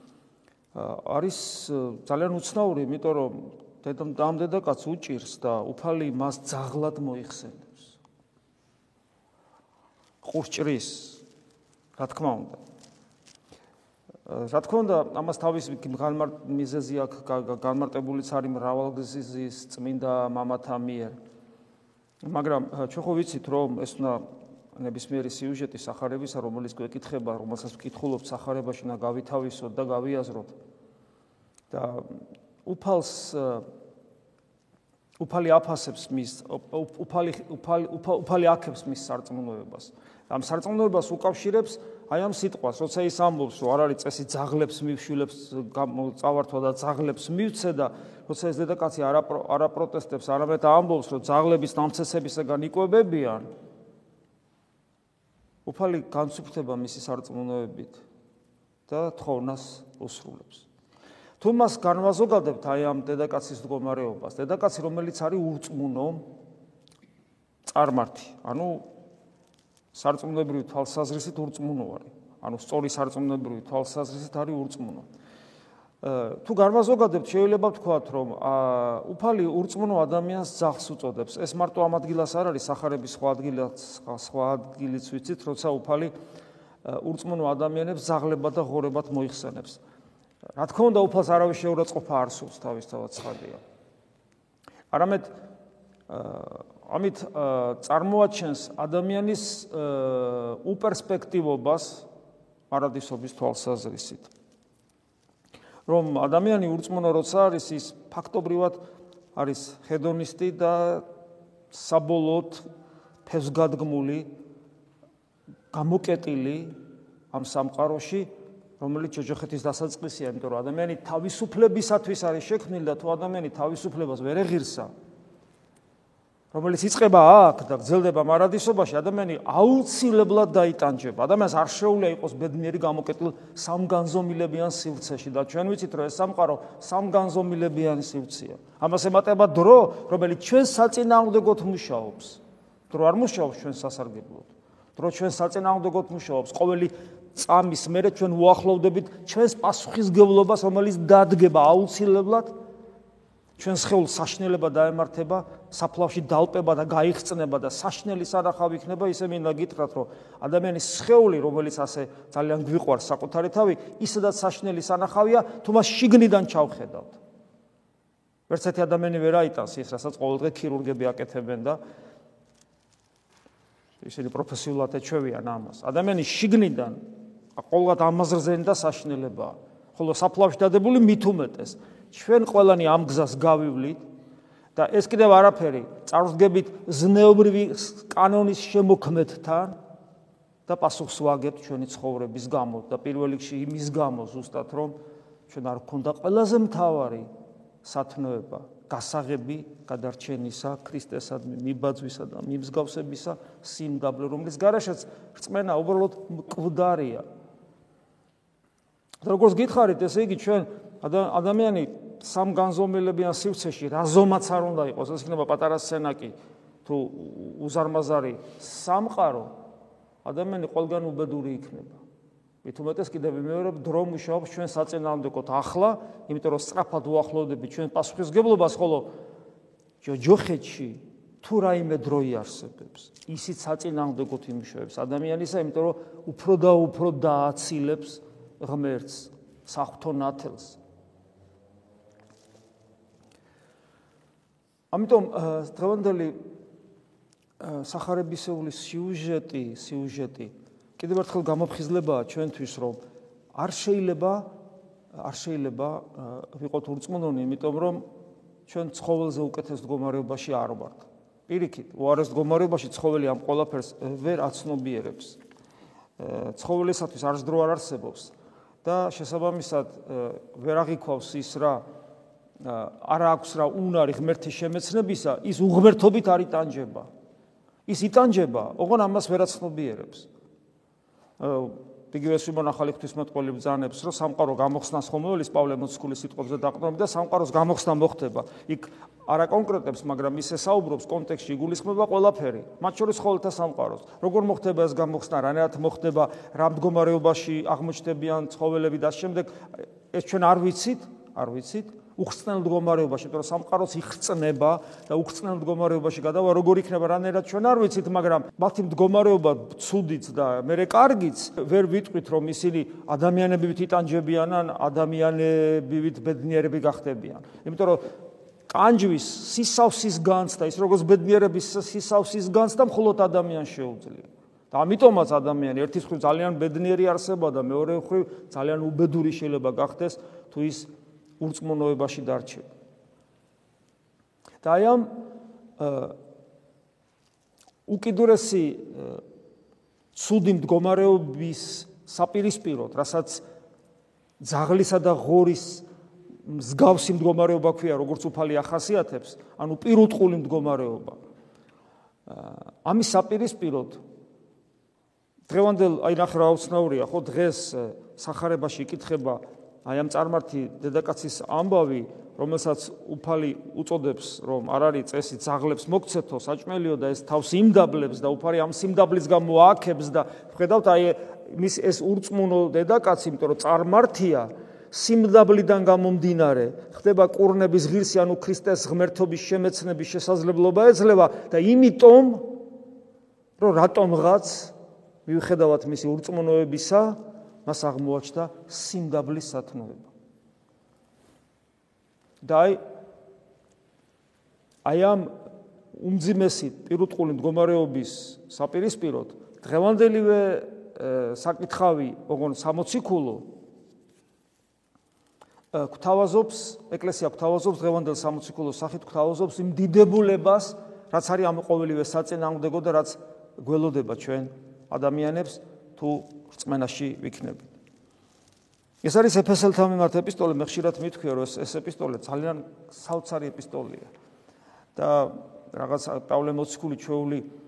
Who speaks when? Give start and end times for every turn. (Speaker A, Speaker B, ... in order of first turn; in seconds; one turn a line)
Speaker A: 0.7-8.0
Speaker A: 10.2-11.2
Speaker A: 12.0-12.6
Speaker A: 14.3-21.1
Speaker A: 22.2-24.2
Speaker A: 24.8-30.6
Speaker A: 31.7-33.6
Speaker A: 35.2-53.5
Speaker A: 55.6-58.0
Speaker A: 58.9-60.7
Speaker A: 61.4-66.2
Speaker A: 67.7-68.8
Speaker A: 69.9-75.1
Speaker A: 76.0-86.1
Speaker A: 86.8-89.8
Speaker A: 90.6-93.6
Speaker A: 94.9-95.3
Speaker A: 96.1-102.1
Speaker A: 102.7-104.3
Speaker A: 105.9-108.8
Speaker A: 109.3-111.0
Speaker A: 111.7-112.6
Speaker A: 113.3-114.3
Speaker A: 115.7-116.7
Speaker A: 117.3-118.3
Speaker A: 118.8-124.9
Speaker A: 126.5-152.5
Speaker A: 153.6-167.2
Speaker A: 168.5-171.8
Speaker A: 174.0-177.0
Speaker A: 177.6-184.0
Speaker A: 184.8-189.8
Speaker A: 190.7-195.0
Speaker A: 195.5-197.3
Speaker A: 197.8-207.2
Speaker A: 209.2-219.5
Speaker A: 220.2-222.0
Speaker A: 222.6-229.1
Speaker A: 230.0-240.8
Speaker A: 244.9-246.4
Speaker A: 247.6-253.0
Speaker A: 253.6-254.5
Speaker A: 255.2-258.0
Speaker A: 258.7-265.4
Speaker A: 266.2-268.3
Speaker A: 268.8-271.8
Speaker A: 272.6-277.1
Speaker A: 277.9-280.3
Speaker A: 281.4-318.0
Speaker A: 318.7-330.9
Speaker A: 331.4-332.7
Speaker A: 334.6-335.2
Speaker A: 335.8-336.2
Speaker A: 337.9-339.2
Speaker A: 340.1-343.4
Speaker A: 344.4-345.9
Speaker A: 346.4-351.2
Speaker A: 352.3-354.0
Speaker A: 355.5-382.6
Speaker A: 383.6-384.8
Speaker A: 385.3-390.1
Speaker A: 392.4-392.8
Speaker A: 394.9-395.3
Speaker A: 396.0-403.5
Speaker A: 405.7-417.7
Speaker A: 419.0-424.1
Speaker A: 425.0-427.5